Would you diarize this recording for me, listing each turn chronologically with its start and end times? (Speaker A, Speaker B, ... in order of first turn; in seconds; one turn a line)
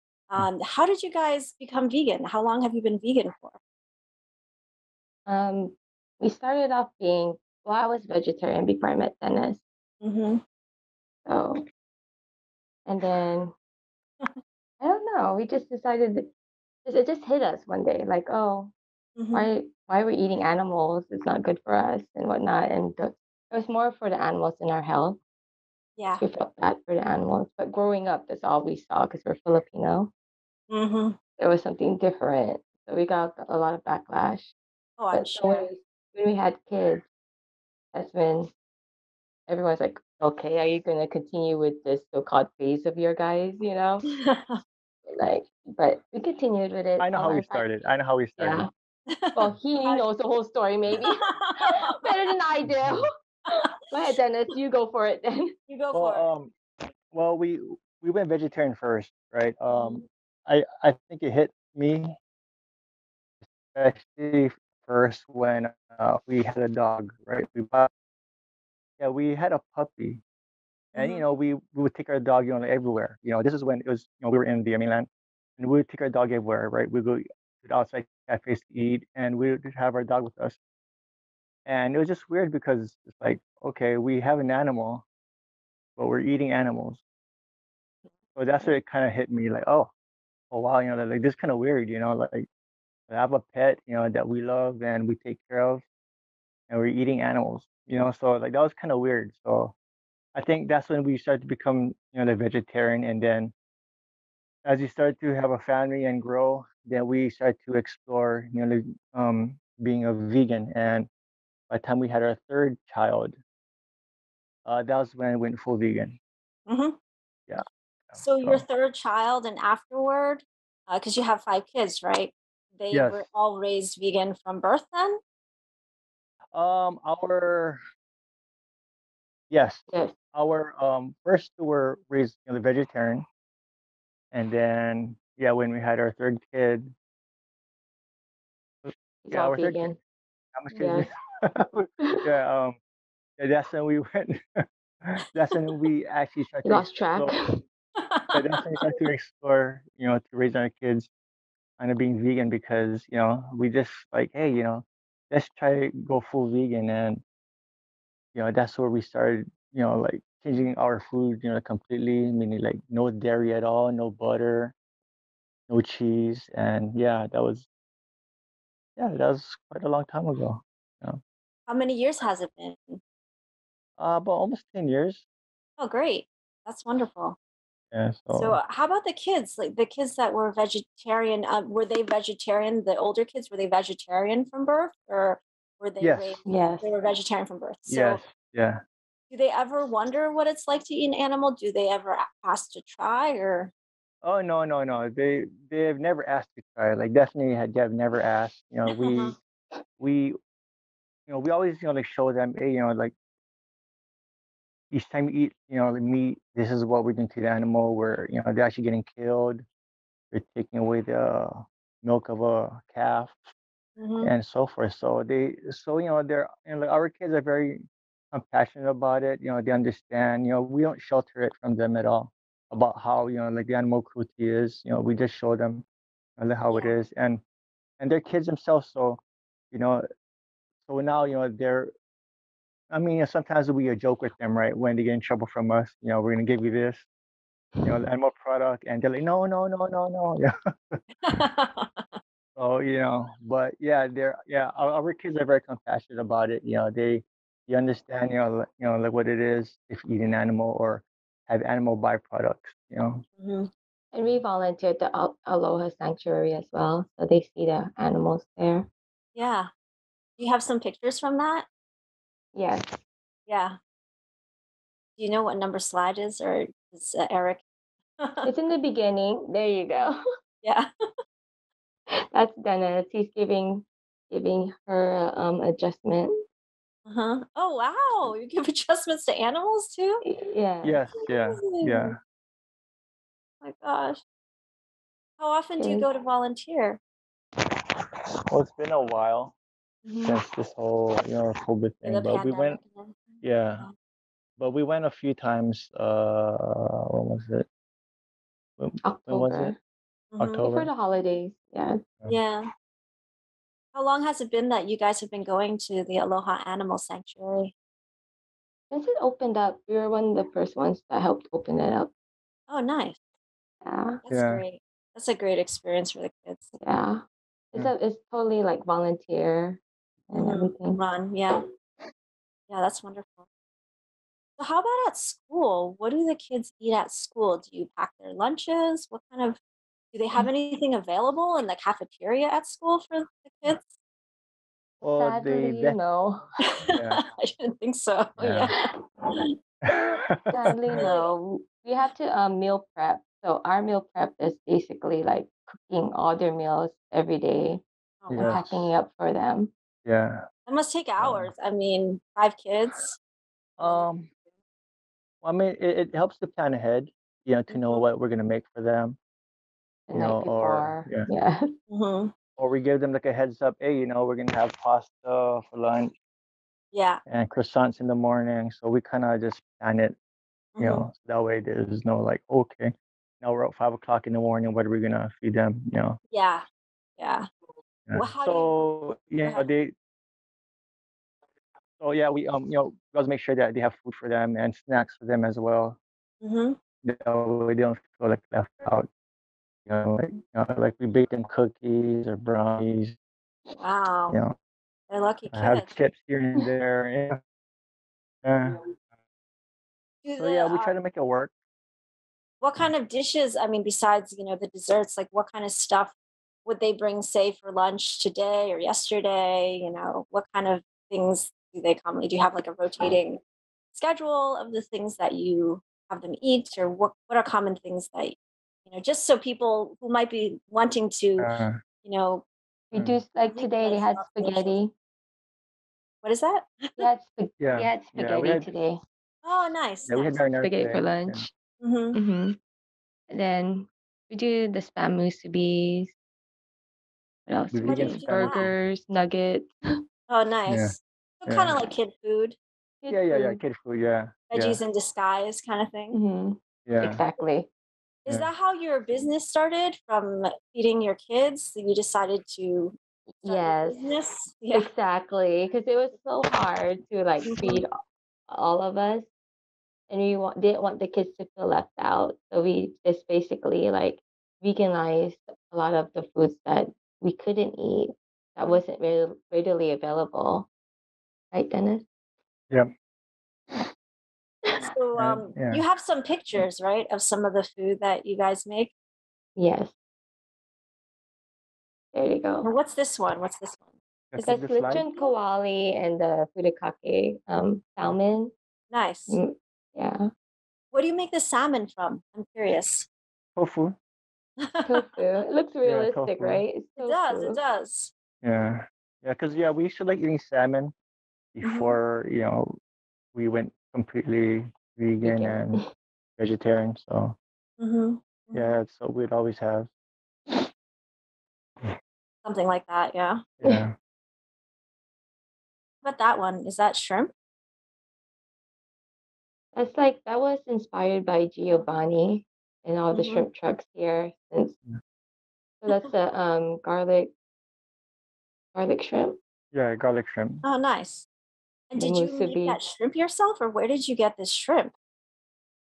Speaker A: 0.3-3.6
Speaker B: 5.3-9.6
Speaker A: 10.0-10.4
Speaker B: 11.3-11.6
Speaker B: 12.8-13.5
Speaker B: 14.8-16.3
Speaker B: 16.8-18.7
Speaker A: 19.2-19.5
Speaker B: 19.3-25.2
Speaker A: 26.0-26.2
Speaker B: 26.2-30.1
Speaker A: 30.7-31.2
Speaker B: 31.4-34.5
Speaker A: 35.0-35.7
Speaker B: 35.1-37.0
Speaker B: 37.9-38.5
Speaker B: 39.5-44.1
Speaker A: 44.1-44.6
Speaker B: 45.2-47.7
Speaker C: 47.0-48.7
Speaker B: 48.4-48.7
Speaker A: 49.1-50.1
Speaker B: 49.3-55.5
Speaker A: 51.2-52.1
Speaker C: 52.6-53.0
Speaker A: 55.7-56.3
Speaker C: 55.9-56.5
Speaker C: 57.1-62.2
Speaker A: 59.7-60.0
Speaker C: 63.7-67.9
Speaker C: 69.0-70.2
Speaker C: 70.9-80.6
Speaker A: 70.9-71.2
Speaker C: 81.7-85.0
Speaker C: 86.0-87.0
Speaker C: 88.4-89.9
Speaker C: 90.5-92.5
Speaker C: 93.1-95.8
Speaker C: 96.7-99.7
Speaker C: 100.3-103.5
Speaker C: 104.6-111.1
Speaker C: 111.7-113.4
Speaker C: 114.6-116.2
Speaker A: 116.7-117.0
Speaker C: 117.5-118.6
Speaker A: 118.2-125.2
Speaker C: 122.9-123.3
Speaker C: 126.5-127.8
Speaker C: 129.5-133.2
Speaker B: 129.9-130.1
Speaker C: 134.3-136.9
Speaker C: 138.8-139.9
Speaker B: 139.2-140.0
Speaker C: 140.6-142.8
Speaker B: 140.7-141.1
Speaker C: 143.4-147.4
Speaker A: 145.5-145.8
Speaker B: 146.6-147.6
Speaker A: 148.0-148.6
Speaker C: 148.3-151.1
Speaker C: 151.8-157.2
Speaker C: 158.3-164.7
Speaker C: 165.7-167.7
Speaker C: 169.0-171.2
Speaker A: 171.7-173.0
Speaker C: 174.0-175.2
Speaker A: 175.8-177.4
Speaker C: 177.9-178.6
Speaker A: 178.3-188.2
Speaker C: 186.0-186.4
Speaker B: 186.4-186.9
Speaker C: 187.9-188.8
Speaker A: 189.3-193.7
Speaker C: 194.2-199.4
Speaker A: 198.9-199.3
Speaker C: 200.0-200.4
Speaker C: 201.3-203.1
Speaker C: 204.9-209.7
Speaker C: 210.3-213.4
Speaker A: 214.0-214.3
Speaker C: 214.2-225.8
Speaker C: 226.4-227.4
Speaker A: 226.7-226.9
Speaker C: 228.0-229.2
Speaker C: 229.7-230.1
Speaker C: 230.9-231.9
Speaker C: 232.9-237.1
Speaker C: 237.8-241.0
Speaker A: 241.2-242.2
Speaker C: 242.6-253.2
Speaker A: 253.4-253.7
Speaker B: 254.1-258.9
Speaker A: 259.4-259.7
Speaker A: 260.4-261.7
Speaker B: 262.5-263.0
Speaker A: 263.5-263.8
Speaker A: 265.2-267.6
Speaker A: 268.2-268.5
Speaker B: 268.4-270.2
Speaker B: 272.3-276.4
Speaker A: 277.1-280.2
Speaker B: 280.2-281.0
Speaker C: 280.8-282.2
Speaker A: 281.2-282.1
Speaker A: 283.6-284.2
Speaker A: 285.4-287.0
Speaker B: 285.8-286.1
Speaker C: 288.5-289.6
Speaker A: 290.1-290.4
Speaker C: 290.2-292.8
Speaker A: 292.0-293.9
Speaker C: 293.4-293.9
Speaker C: 294.6-297.7
Speaker C: 298.8-299.7
Speaker B: 299.0-299.8
Speaker A: 300.3-300.7
Speaker C: 300.4-300.9
Speaker B: 300.6-302.0
Speaker A: 302.3-302.7
Speaker A: 303.9-307.7
Speaker B: 308.9-312.1
Speaker A: 312.7-313.2
Speaker B: 313.8-314.2
Speaker A: 314.2-316.7
Speaker C: 314.3-314.6
Speaker B: 316.8-317.2
Speaker B: 317.8-321.0
Speaker A: 320.3-321.6
Speaker A: 322.7-323.4
Speaker A: 324.6-329.6
Speaker A: 330.1-333.9
Speaker C: 335.0-336.0
Speaker B: 335.0-336.4
Speaker A: 336.6-339.5
Speaker C: 336.9-337.2
Speaker C: 338.4-338.7
Speaker C: 339.8-341.0
Speaker B: 340.5-347.8
Speaker A: 340.6-341.3
Speaker A: 348.2-348.6
Speaker C: 348.3-348.9
Speaker B: 348.4-349.7
Speaker C: 350.1-350.5
Speaker A: 350.7-353.2
Speaker C: 351.2-351.5
Speaker C: 353.8-354.3
Speaker C: 355.4-359.2
Speaker A: 357.7-358.0
Speaker B: 360.1-361.7
Speaker C: 360.1-361.3
Speaker A: 361.9-362.3
Speaker C: 362.6-366.1
Speaker A: 366.9-367.2
Speaker C: 367.2-370.2
Speaker A: 370.8-371.1
Speaker C: 370.8-376.2
Speaker A: 376.3-376.6
Speaker A: 377.2-377.5
Speaker C: 378.1-379.9
Speaker A: 378.2-378.8
Speaker C: 382.0-386.0
Speaker A: 386.4-386.8
Speaker C: 387.0-389.1
Speaker C: 389.9-393.2
Speaker A: 393.8-394.4
Speaker C: 394.3-394.6
Speaker A: 395.1-395.9
Speaker C: 395.5-397.4
Speaker C: 398.4-398.8
Speaker A: 400.2-400.9
Speaker C: 400.4-401.5
Speaker A: 402.6-406.1
Speaker A: 406.6-413.4
Speaker A: 413.9-422.5
Speaker C: 421.4-421.8
Speaker B: 422.9-424.9
Speaker C: 422.9-423.2
Speaker A: 423.5-424.8
Speaker A: 426.2-427.1
Speaker B: 427.0-429.0
Speaker C: 427.6-428.7
Speaker A: 429.4-430.4
Speaker C: 430.1-431.5
Speaker B: 430.6-431.5
Speaker A: 431.8-432.2
Speaker B: 432.1-432.6
Speaker B: 433.3-436.1
Speaker B: 437.5-439.7
Speaker C: 437.7-438.7
Speaker A: 437.9-438.7
Speaker A: 440.3-442.6
Speaker C: 440.7-440.9
Speaker C: 441.5-441.8
Speaker B: 443.0-443.6
Speaker C: 443.1-444.8
Speaker A: 444.5-446.2
Speaker B: 446.1-447.7
Speaker C: 446.9-447.2
Speaker A: 448.2-454.9
Speaker B: 453.4-454.0
Speaker B: 454.7-457.9
Speaker A: 457.5-457.8
Speaker B: 458.5-459.3
Speaker B: 460.1-470.7
Speaker B: 471.5-472.1
Speaker A: 474.8-478.9
Speaker C: 475.2-475.8
Speaker B: 479.6-479.9
Speaker B: 482.1-482.7
Speaker A: 482.6-483.8
Speaker C: 484.3-485.1
Speaker B: 484.4-488.5
Speaker A: 488.9-489.4
Speaker B: 489.3-490.3
Speaker A: 490.9-493.1
Speaker C: 493.6-494.0
Speaker A: 494.6-495.2
Speaker B: 494.9-497.6
Speaker C: 495.8-496.6
Speaker A: 497.0-498.1
Speaker C: 498.4-500.9
Speaker C: 501.5-502.8
Speaker A: 501.6-502.0
Speaker C: 503.3-505.8
Speaker B: 505.2-505.9
Speaker C: 506.4-507.4
Speaker A: 507.8-508.7
Speaker C: 508.5-509.9
Speaker A: 512.5-513.4
Speaker C: 513.6-514.0
Speaker A: 516.0-517.3
Speaker B: 519.7-524.8
Speaker A: 523.1-523.5
Speaker B: 525.8-527.3
Speaker B: 528.7-529.4
Speaker C: 529.7-530.6
Speaker A: 530.6-531.2
Speaker A: 531.9-535.0
Speaker B: 532.0-532.8